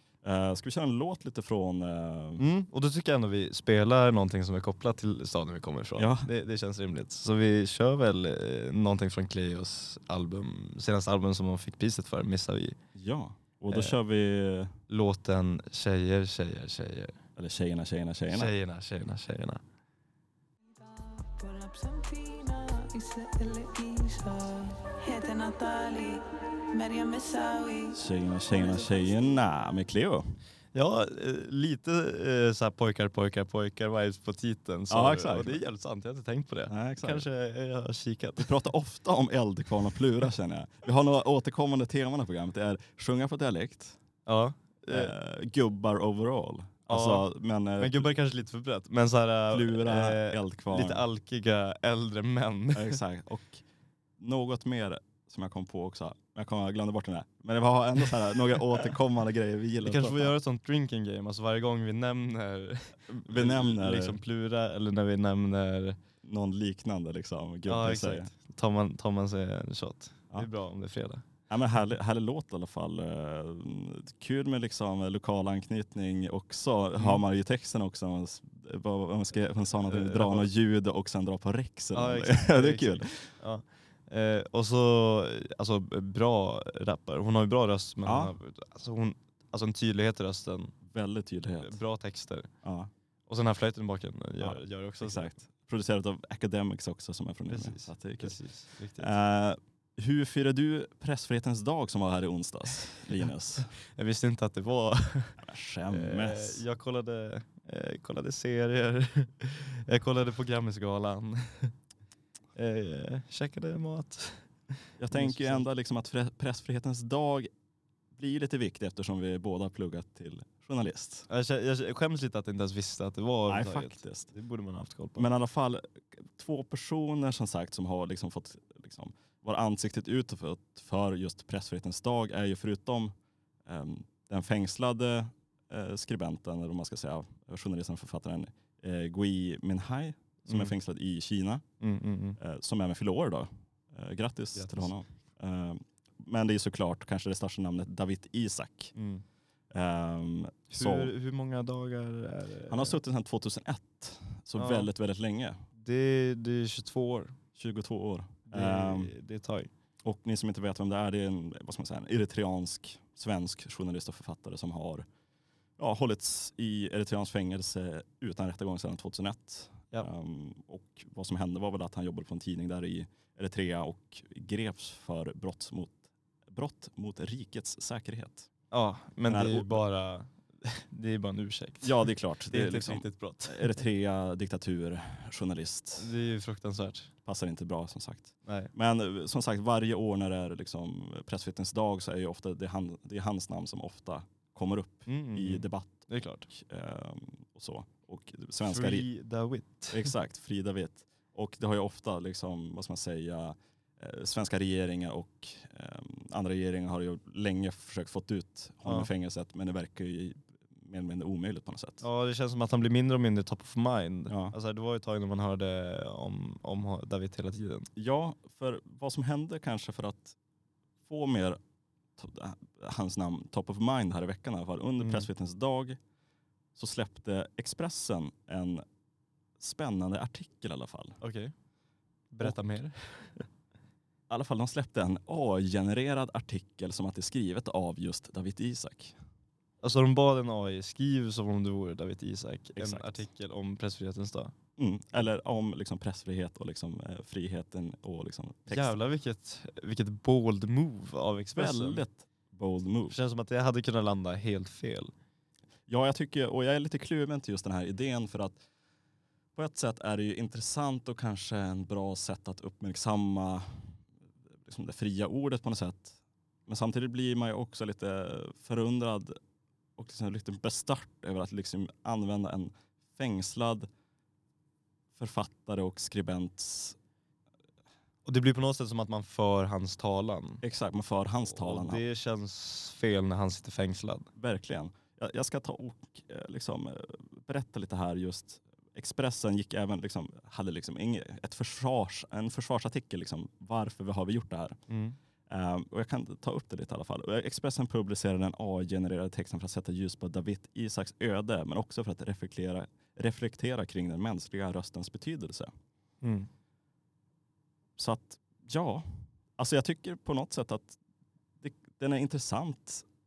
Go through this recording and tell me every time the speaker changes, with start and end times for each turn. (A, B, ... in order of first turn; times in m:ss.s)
0:00.2-0:02.4 A
0:02.4-0:12.8 B
0:06.0-0:06.3 A
0:12.9-0:14.8 A
0:14.9-0:17.2 B
0:17.4-0:18.5 A
0:18.3-0:19.6 B
0:20.7-0:29.5 C
0:27.9-0:30.4 A
0:30.7-0:38.5 B
0:34.9-0:35.6 A
0:36.7-0:37.2 A
0:38.4-0:44.0 A
0:44.2-0:45.1 B
0:44.9-0:48.1 A
0:46.9-0:47.3 B
0:47.8-0:53.0 B
0:49.5-0:51.0 A
0:52.7-0:53.6 A
0:54.2-1:00.3 A
0:59.8-1:06.0 B
1:03.2-1:04.2 A
1:06.2-1:08.3 A
1:07.7-1:11.2 B
1:11.5-1:23.3 A
1:19.9-1:20.5 B
1:21.9-1:30.7 B
1:28.0-1:28.3 A
1:30.9-1:31.8 A
1:31.6-1:32.5 B
1:32.6-1:32.9 A
1:33.3-1:35.4 B
1:34.4-1:38.4 A
1:37.5-1:39.1 B
1:39.0-1:43.7 A
1:43.9-1:51.7 B
1:45.4-1:46.6 A
1:52.6-1:54.5 B
1:55.0-1:57.5 A
1:55.1-1:55.6 B
1:58.1-2:01.3 A
2:01.3-2:05.3 B
2:03.5-2:04.3 A
2:05.2-2:13.1 A
2:13.6-2:21.6 A
2:20.4-2:20.7 B
2:21.8-2:22.4 B
2:22.4-2:28.9 A
2:24.5-2:24.9 B
2:28.9-2:29.2 B
2:29.7-2:31.1 A
2:30.7-2:33.0 B
2:32.7-2:35.6 A
2:34.6-2:34.9 B
2:35.8-2:37.4 B
2:37.5-2:39.1 A
2:38.5-2:39.7 B
2:40.0-2:45.0 A
2:45.8-2:58.5 A
2:58.7-3:03.8 B
2:59.3-2:59.8 A
3:01.8-3:06.1 A
3:06.0-3:07.1 B
3:07.2-3:19.1 A
3:08.4-3:08.7 B
3:15.1-3:16.5 B
3:18.6-3:20.1 B
3:19.9-3:32.0 A
3:32.0-3:37.9 B
3:34.3-3:34.5 A
3:38.0-3:40.4 A
3:41.0-3:41.6 A
3:42.2-3:46.0 A
3:45.0-3:45.3 B
3:46.7-3:48.8 A
3:49.6-3:51.2 A
3:51.2-3:51.5 B
3:52.3-3:53.4 B
3:54.3-3:59.2 A
3:59.8-4:04.5 B
4:02.8-4:03.2 A
4:04.8-4:09.0 A
4:08.7-4:12.0 B
4:11.5-4:13.2 A
4:13.1-4:15.1 B
4:15.9-4:18.6 A
4:19.5-4:24.0 A
4:24.6-4:29.4 A
4:30.0-4:33.9 A
4:35.1-4:37.0 A
4:38.2-4:40.6 B
4:40.6-4:42.0 A
4:41.5-4:44.3 B
4:44.4-4:54.8 A
4:54.9-4:55.2 B
4:55.5-5:05.7 A
5:06.2-5:06.5 B
5:08.0-5:11.0 A
5:11.6-5:13.0 A